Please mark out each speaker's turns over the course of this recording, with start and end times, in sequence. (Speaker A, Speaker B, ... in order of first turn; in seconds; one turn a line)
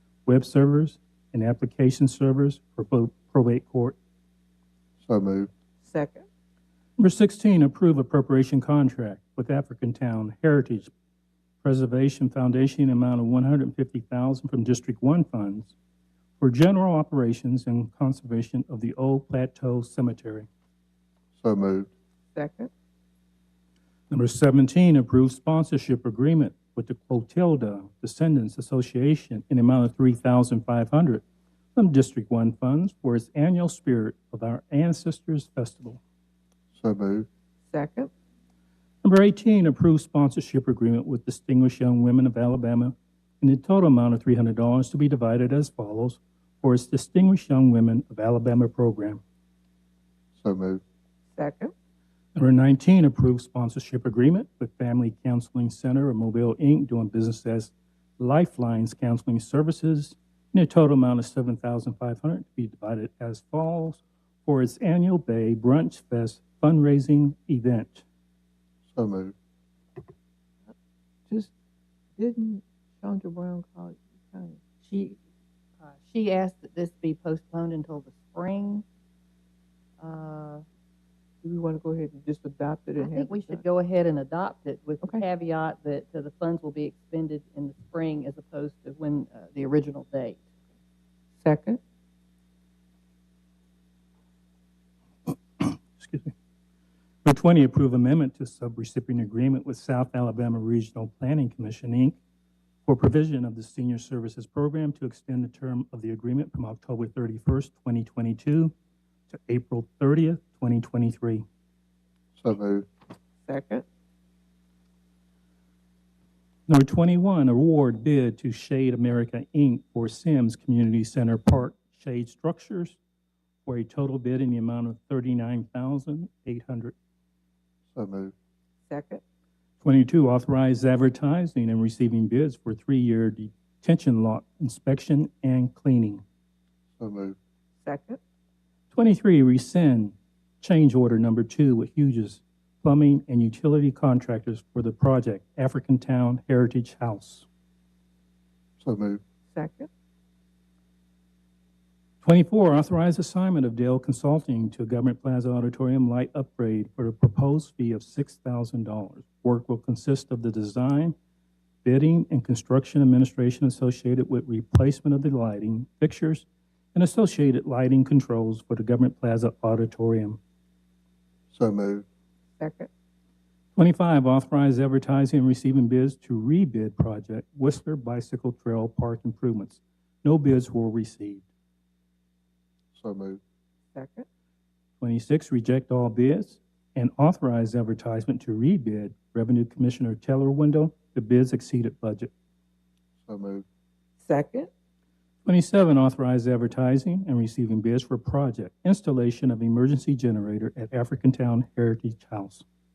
Speaker A: 0.3-4.0
Speaker B: 5.0-5.5
Speaker C: 5.8-6.2
Speaker A: 7.0-10.9
Speaker A: 11.6-15.8
Speaker A: 16.4-20.5
Speaker B: 21.4-21.9
Speaker C: 22.4-22.7
Speaker A: 24.1-31.2
Speaker A: 31.8-36.0
Speaker B: 36.8-37.3
Speaker C: 37.7-38.1
Speaker A: 39.0-49.2
Speaker B: 50.4-50.8
Speaker C: 51.4-51.7
Speaker A: 52.4-68.0
Speaker B: 68.9-69.3
Speaker C: 72.2-74.6
Speaker D: 74.8-75.2
Speaker D: 75.9-78.8
Speaker D: 80.0-80.6
Speaker C: 81.4-83.6
Speaker D: 83.0-90.4
Speaker C: 91.4-91.8
Speaker A: 95.3-96.3
Speaker A: 97.2-102.2
Speaker A: 102.9-108.7
Speaker A: 109.3-111.5
Speaker B: 112.4-112.9
Speaker C: 113.5-113.8
Speaker A: 116.7-123.0
Speaker A: 123.7-127.0
Speaker B: 127.9-128.3
Speaker C: 128.9-129.2
Speaker A: 129.8-136.2
Speaker B: 137.0-137.4
Speaker C: 137.8-138.2
Speaker A: 138.9-147.5
Speaker B: 148.8-149.2
Speaker C: 149.5-149.9
Speaker A: 152.2-161.2
Speaker A: 161.8-170.4
Speaker B: 171.5-172.1
Speaker C: 172.6-172.9
Speaker A: 173.8-181.5
Speaker B: 182.9-183.4
Speaker C: 183.9-184.3
Speaker A: 185.0-192.3
Speaker B: 193.3-193.7
Speaker C: 194.2-194.7
Speaker A: 195.4-202.6